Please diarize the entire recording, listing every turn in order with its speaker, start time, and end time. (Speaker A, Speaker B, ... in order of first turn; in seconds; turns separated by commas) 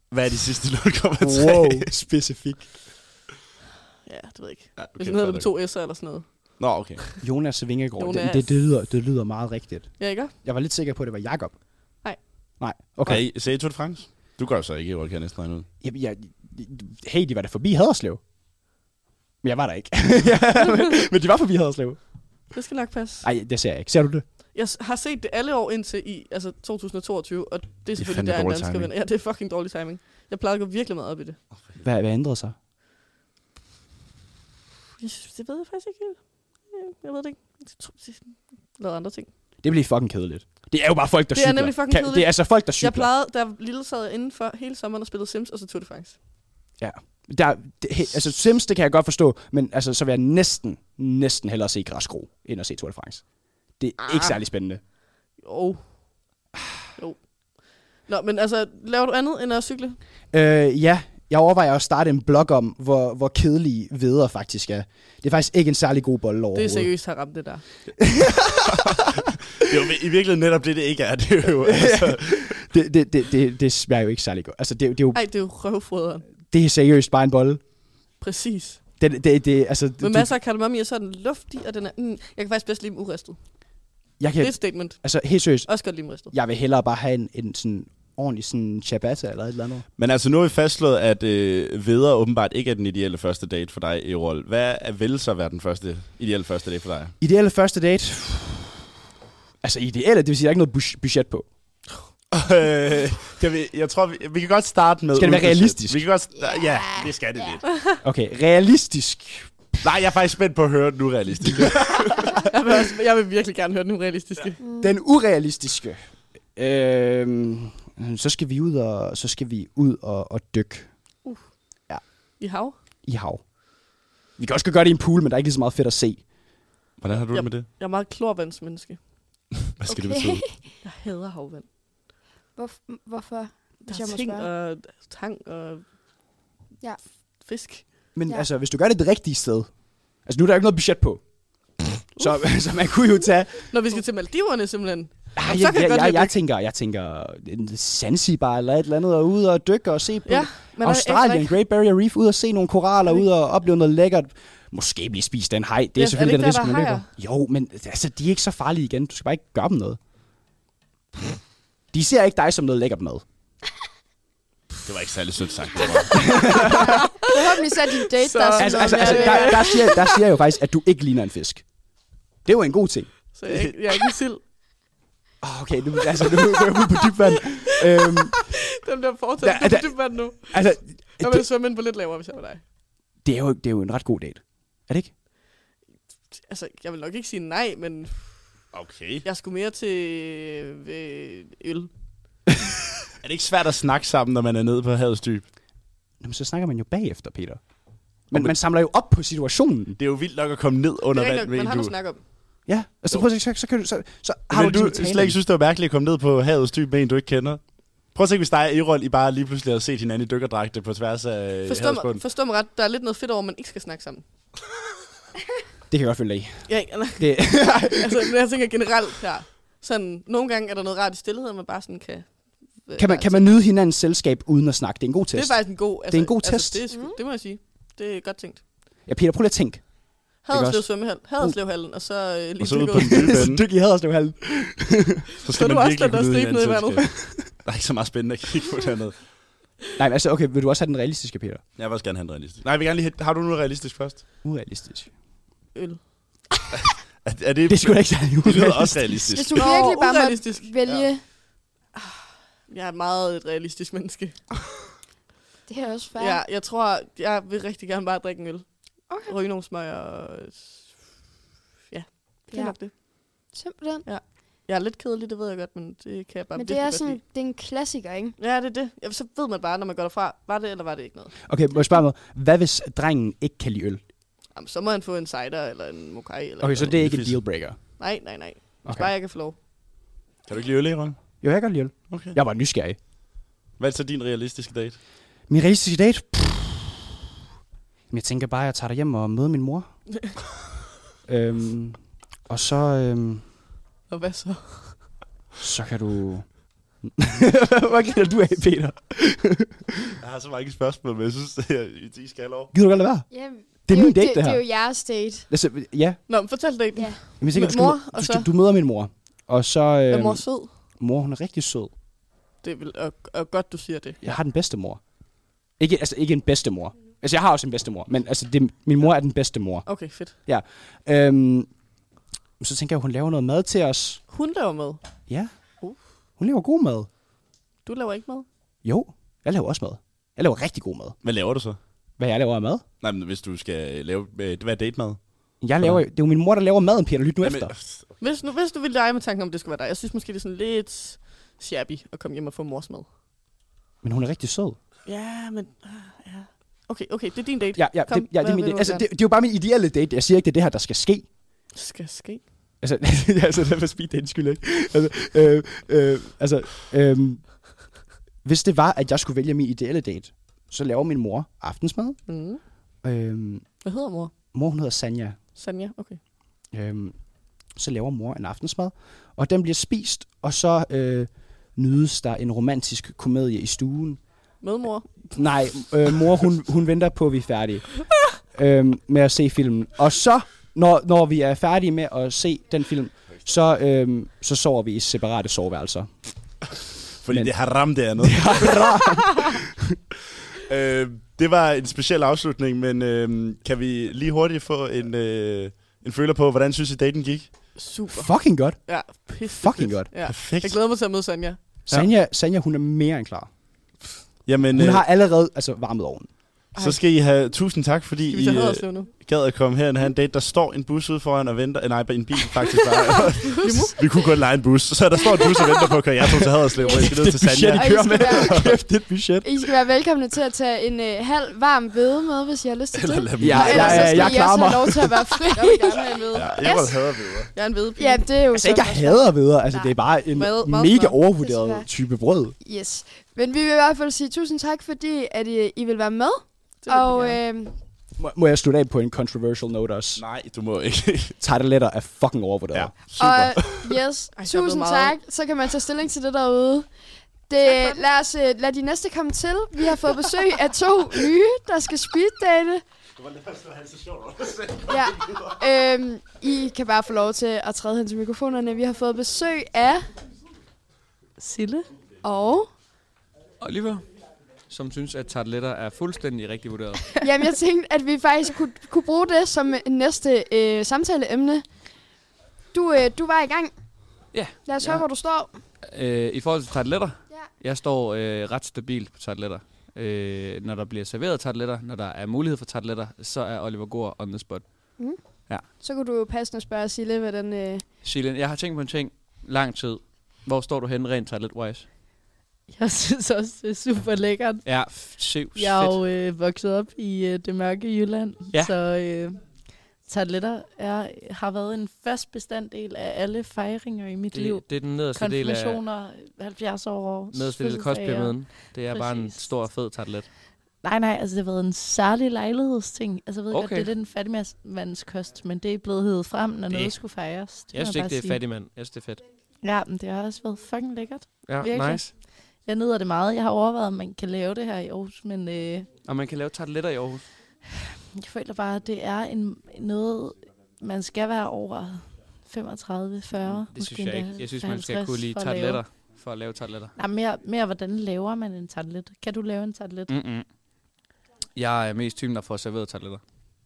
Speaker A: 0.1-1.9, Speaker B: 1.2-2.7, Speaker C: 4.0-7.2, Speaker A: 4.8-5.5, Speaker A: 6.6-7.0, Speaker B: 7.2-12.0, Speaker C: 8.0-8.8, Speaker C: 10.0-10.4, Speaker C: 12.0-12.3, Speaker B: 12.6-13.3, Speaker A: 13.0-15.7, Speaker B: 15.8-18.2, Speaker B: 19.4-22.5, Speaker C: 22.5-23.3, Speaker B: 23.2-24.3, Speaker C: 24.4-31.4, Speaker A: 27.9-28.9, Speaker B: 31.8-32.5, Speaker C: 35.0-39.3, Speaker B: 39.6-43.1, Speaker C: 41.3-46.2, Speaker B: 46.8-54.8, Speaker C: 54.0-54.4, Speaker C: 55.4-56.2, Speaker C: 57.0-60.0, Speaker B: 60.3-66.9, Speaker C: 66.5-67.6, Speaker B: 68.0-68.6, Speaker A: 69.6-72.5, Speaker B: 71.7-75.5, Speaker C: 75.1-76.3, Speaker B: 76.3-77.7, Speaker C: 78.2-78.9, Speaker B: 79.0-80.4, Speaker C: 80.0-83.7, Speaker B: 84.2-89.8, Speaker C: 84.4-86.3, Speaker A: 90.0-97.2, Speaker B: 97.2-98.7, Speaker B: 99.6-101.5, Speaker A: 102.3-107.7, Speaker B: 105.2-106.1, Speaker D: 106.3-107.6, Speaker B: 108.0-109.8, Speaker A: 109.8-112.2, Speaker C: 112.5-114.6, Speaker D: 114.6-115.0, Speaker B: 114.8-121.0, Speaker C: 121.2-121.5, Speaker C: 122.4-122.8, Speaker B: 123.0-123.5, Speaker B: 124.4-126.3, Speaker A: 127.0-127.7, Speaker C: 127.3-129.4, Speaker A: 129.7-130.4, Speaker D: 129.9-130.8, Speaker C: 130.8-131.7, Speaker D: 132.6-134.5, Speaker C: 133.8-136.0, Speaker C: 137.4-138.1, Speaker B: 138.1-143.8, Speaker C: 142.2-142.7, Speaker C: 143.7-146.4, Speaker B: 145.3-160.0, Speaker C: 150.2-151.6, Speaker C: 156.0-157.1, Speaker B: 161.9-163.2, Speaker A: 164.9-166.2, Speaker B: 166.1-166.9, Speaker D: 167.2-169.9, Speaker C: 168.2-170.2, Speaker B: 168.6-171.8, Speaker B: 172.4-173.3, Speaker C: 173.3-174.4, Speaker A: 173.5-173.7, Speaker B: 175.4-178.3, Speaker C: 178.1-182.6, Speaker B: 179.4-181.5, Speaker B: 183.2-185.1, Speaker C: 186.3-188.5, Speaker A: 188.7-189.2, Speaker C: 189.2-191.9, Speaker A: 193.2-195.5, Speaker B: 196.2-197.6, Speaker B: 198.3-200.0, Speaker A: 198.3-198.6, Speaker A: 200.0-202.5, Speaker C: 201.1-202.2, Speaker B: 202.7-205.4, Speaker A: 204.5-212.2, Speaker C: 211.7-214.2, Speaker B: 215.9-218.3, Speaker C: 216.7-223.7, Speaker B: 223.0-226.9, Speaker C: 225.3-228.7, Speaker D: 226.9-227.2, Speaker B: 229.1-231.6, Speaker C: 230.4-233.3, Speaker A: 232.6-233.7, Speaker B: 232.9-235.1, Speaker A: 235.4-239.3, Speaker C: 235.5-237.1, Speaker B: 237.0-237.6, Speaker B: 240.0-241.6, Speaker A: 241.8-244.2, Speaker B: 244.4-245.1, Speaker C: 245.7-246.0, Speaker A: 247.2-249.8, Speaker B: 247.7-249.2, Speaker D: 249.3-251.3, Speaker C: 249.6-250.7, Speaker C: 251.9-254.4, Speaker D: 255.7-256.4, Speaker C: 256.2-261.2, Speaker D: 259.1-259.4, Speaker C: 261.9-263.0, Speaker D: 262.5-264.1, Speaker C: 264.1-267.2, Speaker D: 266.6-268.4, Speaker C: 268.4-271.3, Speaker B: 271.4-274.1, Speaker C: 274.5-276.9, Speaker B: 276.6-278.2, Speaker A: 276.9-277.5, Speaker C: 278.0-279.6, Speaker B: 278.8-279.1, Speaker A: 280.5-281.4, Speaker B: 281.4-283.0, Speaker A: 282.1-282.4, Speaker A: 283.8-285.0, Speaker B: 285.5-286.9, Speaker B: 288.1-289.9, Speaker B: 291.3-293.5, Speaker C: 294.1-295.1, Speaker B: 295.6-296.6, Speaker B: 297.2-299.8, Speaker A: 300.2-302.7, Speaker B: 302.7-304.7, Speaker D: 303.3-305.5, Speaker B: 305.5-306.2, Speaker C: 306.3-308.5, Speaker D: 306.9-307.3, Speaker B: 307.4-311.9, Speaker C: 310.1-310.9, Speaker C: 312.6-314.3, Speaker B: 314.2-315.1, Speaker B: 315.7-321.7, Speaker C: 319.9-320.4, Speaker B: 322.6-324.2, Speaker C: 324.3-325.0, Speaker B: 325.3-325.6, Speaker C: 325.8-326.0, Speaker B: 326.4-327.1, Speaker C: 327.8-328.5, Speaker B: 328.8-331.2, Speaker A: 331.2-331.8, Speaker B: 332.2-332.9, Speaker A: 333.0-336.0, Speaker B: 335.6-337.7, Speaker A: 337.4-338.1, Speaker C: 338.2-343.1, Speaker B: 344.0-344.8, Speaker C: 345.1-349.1, Speaker B: 347.7-351.3, Speaker C: 351.7-352.5, Speaker B: 352.8-357.7, Speaker B: 358.4-362.2, Speaker C: 362.3-362.6, Speaker B: 363.0-363.7, Speaker C: 363.8-364.3, Speaker B: 364.5-365.4, Speaker C: 365.6-366.2, Speaker B: 366.7-374.2, Speaker C: 374.6-375.7, Speaker B: 375.3-377.9, Speaker B: 378.5-386.1, Speaker A: 387.2-388.9, Speaker B: 388.2-389.6, Speaker A: 390.7-397.7, Speaker C: 397.7-401.6, Speaker B: 398.1-400.2, Speaker A: 400.2-400.8, Speaker B: 401.9-403.5, Speaker A: 404.4-405.1, Speaker B: 404.7-406.6, Speaker A: 406.8-418.8, Speaker C: 408.3-409.1, Speaker C: 413.6-414.0, Speaker D: 416.8-417.1, Speaker B: 416.9-419.6, Speaker D: 417.7-418.9, Speaker D: 419.4-427.4, Speaker A: 422.9-424.5, Speaker B: 423.4-425.3, Speaker C: 425.6-426.9, Speaker A: 426.3-427.5, Speaker C: 427.5-428.4, Speaker D: 428.0-429.9, Speaker B: 428.5-432.6, Speaker C: 430.2-431.2, Speaker D: 431.3-431.9, Speaker D: 432.6-437.8, Speaker C: 436.8-437.4, Speaker B: 438.2-440.2, Speaker A: 440.2-441.4, Speaker B: 441.4-442.9, Speaker A: 442.7-444.0, Speaker D: 443.1-447.0, Speaker C: 444.3-445.2, Speaker D: 447.5-452.8, Speaker C: 447.7-447.9, Speaker A: 453.2-455.4, Speaker D: 454.9-460.1, Speaker E: 461.4-461.9, Speaker D: 462.2-462.7, Speaker F: 463.6-464.1, Speaker F: 464.7-467.1, Speaker D: 467.2-472.0, Speaker D: 472.7-474.0, Speaker F: 474.3-475.1, Speaker D: 474.6-475.6, Speaker F: 475.8-485.7, Speaker D: 485.0-487.9, Speaker F: 488.0-491.9, Speaker E: 492.7-509.6, Speaker F: 494.6-496.0, Speaker F: 504.3-505.8, Speaker F: 507.3-510.3, Speaker E: 510.8-518.4, Speaker F: 513.5-513.9, Speaker F: 516.7-517.1, Speaker F: 517.7-519.2, Speaker E: 519.6-526.0, Speaker F: 521.4-522.2, Speaker F: 526.0-527.3, Speaker E: 528.2-536.0, Speaker F: 533.4-537.0, Speaker E: 537.0-540.1, Speaker F: 540.1-540.5, Speaker F: 541.5-543.2